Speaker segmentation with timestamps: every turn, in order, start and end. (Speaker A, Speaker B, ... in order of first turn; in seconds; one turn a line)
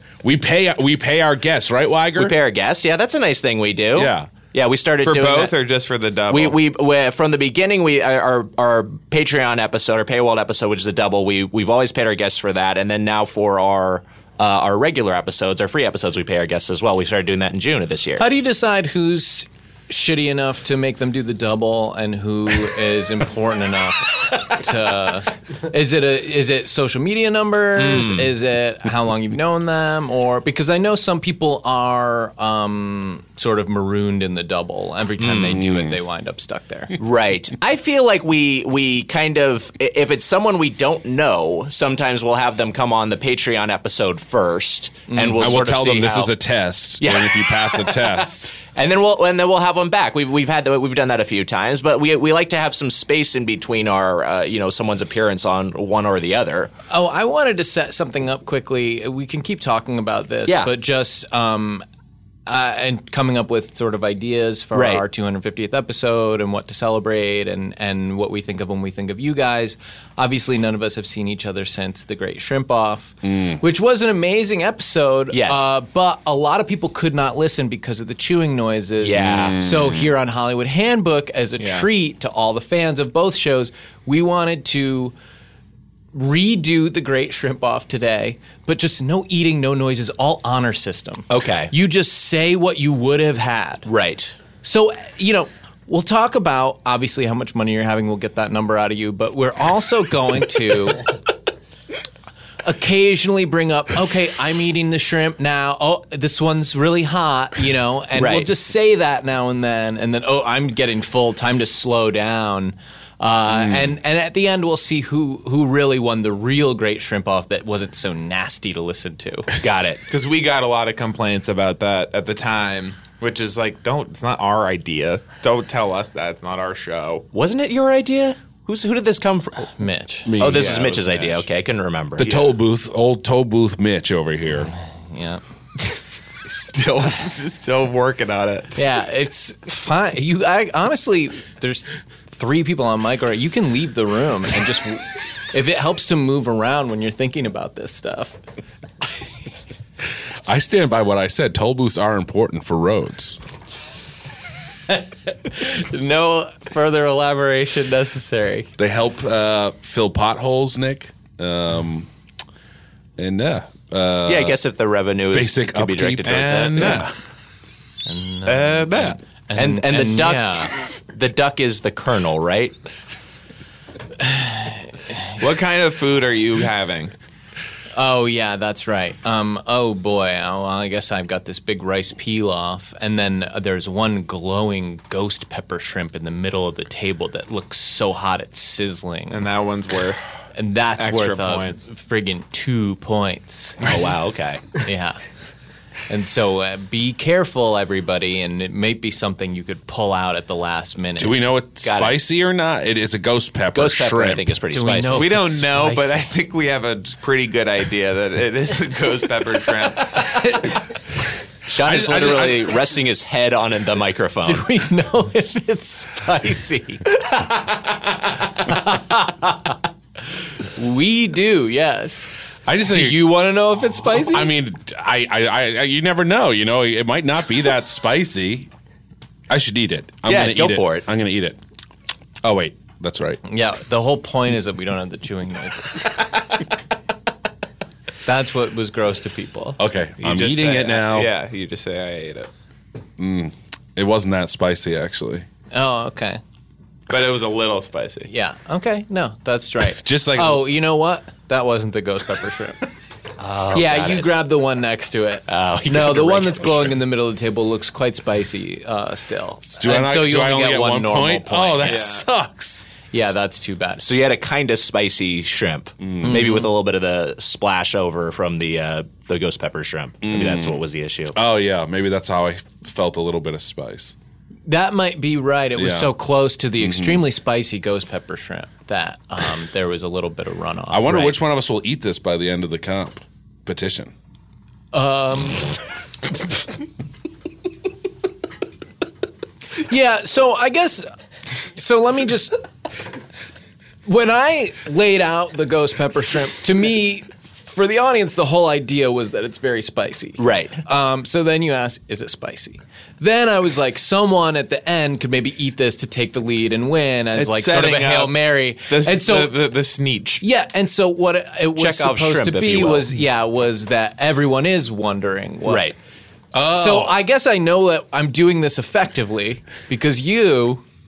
Speaker A: 0.2-2.4
Speaker B: 2.2-5.5
Speaker A: 3.9-4.3
Speaker C: 5.0-6.6
Speaker B: 6.3-18.2
Speaker D: 18.2-37.0
Speaker B: 27.8-28.3
Speaker B: 35.2-35.6
Speaker A: 35.5-36.0
Speaker B: 37.0-46.3
Speaker D: 45.1-45.6
Speaker A: 45.4-48.5
Speaker B: 47.0-56.7
Speaker D: 56.9-61.8
Speaker B: 60.5-60.7
Speaker D: 62.5-85.1
Speaker B: 64.7-65.0
Speaker A: 73.2-73.6
Speaker B: 75.3-75.7
Speaker B: 79.0-79.6
Speaker A: 79.2-80.1
Speaker C: 81.6-81.9
Speaker D: 86.1-93.9
Speaker B: 91.3-91.7
Speaker B: 93.9-94.4
Speaker D: 94.6-101.1
Speaker D: 102.6-119.5
Speaker B: 108.2-108.5
Speaker A: 113.5-113.9
Speaker B: 119.6-120.0
Speaker C: 120.1-127.3
Speaker B: 127.3-129.7
Speaker D: 129.8-130.3
Speaker A: 130.3-130.9
Speaker B: 130.4-132.4
Speaker C: 130.5-131.4
Speaker A: 132.2-134.7
Speaker D: 135.1-135.4
Speaker C: 136.5-138.8
Speaker D: 138.8-148.4
Speaker A: 150.5-153.4
Speaker D: 154.9-158.7
Speaker A: 158.8-162.1
Speaker A: 163.2-164.6
Speaker B: 164.3-167.1
Speaker A: 165.3-167.1
Speaker C: 166.2-167.1
Speaker D: 168.1-170.7
Speaker B: 168.5-172.8
Speaker D: 174.2-175.2
Speaker C: 175.4-177.1
Speaker D: 177.9-189.4
Speaker C: 189.3-190.2
Speaker D: 190.6-193.8
Speaker C: 191.0-191.9
Speaker B: 193.8-194.7
Speaker D: 194.8-195.2
Speaker D: 196.1-201.4
Speaker A: 201.2-204.5
Speaker B: 201.8-202.2
Speaker B: 203.7-205.5
Speaker D: 204.7-206.2
Speaker C: 205.1-210.4
Speaker D: 210.2-210.8
Speaker B: 211.7-214.7
Speaker A: 211.8-212.8
Speaker D: 214.4-217.8
Speaker D: 218.4-219.8
Speaker D: 220.7-222.3
Speaker A: 222.7-223.4
Speaker D: 222.8-224.5
Speaker A: 224.2-228.7
Speaker A: 229.5-231.6
Speaker B: 230.2-231.1
Speaker A: 232.4-233.4
Speaker D: 233.5-236.1
Speaker D: 238.3-239.8
Speaker A: 239.8-241.3
Speaker C: 240.2-242.5
Speaker A: 243.2-245.5
Speaker D: 245.7-246.4
Speaker C: 247.1-248.3
Speaker D: 248.3-252.8
Speaker A: 249.9-250.7
Speaker B: 253.4-254.3
Speaker D: 253.7-262.1
Speaker B: 255.5-257.0
Speaker A: 259.7-262.9
Speaker C: 261.8-262.2
Speaker D: 263.1-264.0
Speaker B: 264.0-271.4
Speaker A: 266.0-266.5
Speaker D: 266.2-266.7
Speaker A: 270.2-274.1
Speaker D: 274.7-281.4
Speaker A: 275.8-276.1
Speaker A: 276.8-277.3
Speaker A: 280.9-284.1
Speaker D: 284.9-285.7
Speaker D: 289.8-291.1
Speaker D: 291.6-292.6
Speaker D: 294.1-309.6
Speaker B: 300.4-300.8
Speaker C: 307.4-310.4
Speaker D: 310.4-315.9
Speaker B: 311.8-313.1
Speaker B: 315.7-316.0
Speaker A: 316.5-317.1
Speaker D: 316.7-320.8